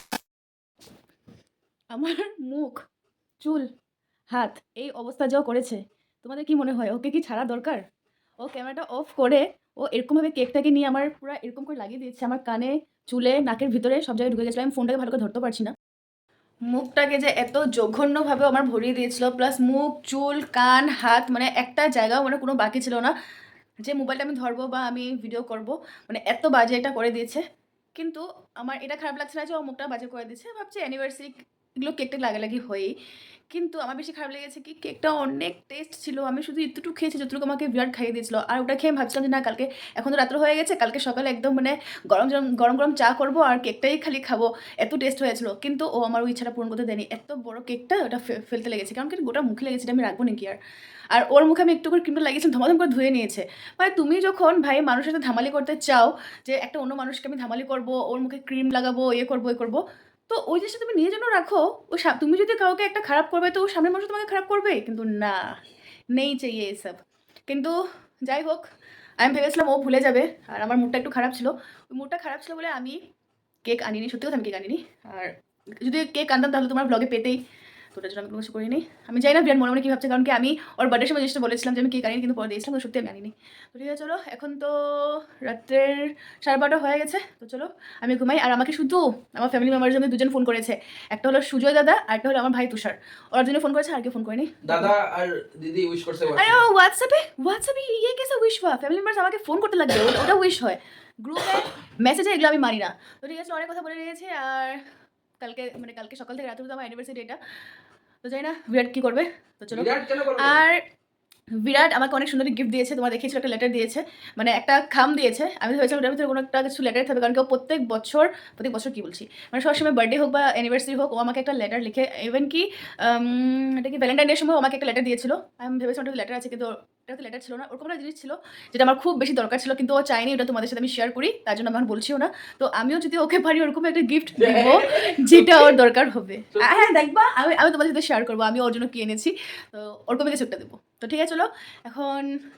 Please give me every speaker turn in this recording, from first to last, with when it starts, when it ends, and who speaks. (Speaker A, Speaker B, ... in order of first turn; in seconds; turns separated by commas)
Speaker A: 1.9-2.8, Speaker A: 3.4-3.7, Speaker A: 4.3-7.8, Speaker A: 8.4-15.7, Speaker A: 16.7-23.1, Speaker A: 23.8-27.4, Speaker A: 27.9-32.9, Speaker A: 33.5-50.6, Speaker A: 51.1-65.6, Speaker A: 66.2-67.7, Speaker A: 68.2-68.6, Speaker A: 69.2-73.0, Speaker A: 73.6-77.4, Speaker A: 77.9-94.9, Speaker B: 94.6-96.6, Speaker A: 96.3-104.8, Speaker A: 105.4-107.4, Speaker A: 108.2-110.8, Speaker B: 109.7-110.7, Speaker A: 111.6-142.3, Speaker B: 134.3-135.8, Speaker B: 136.5-136.9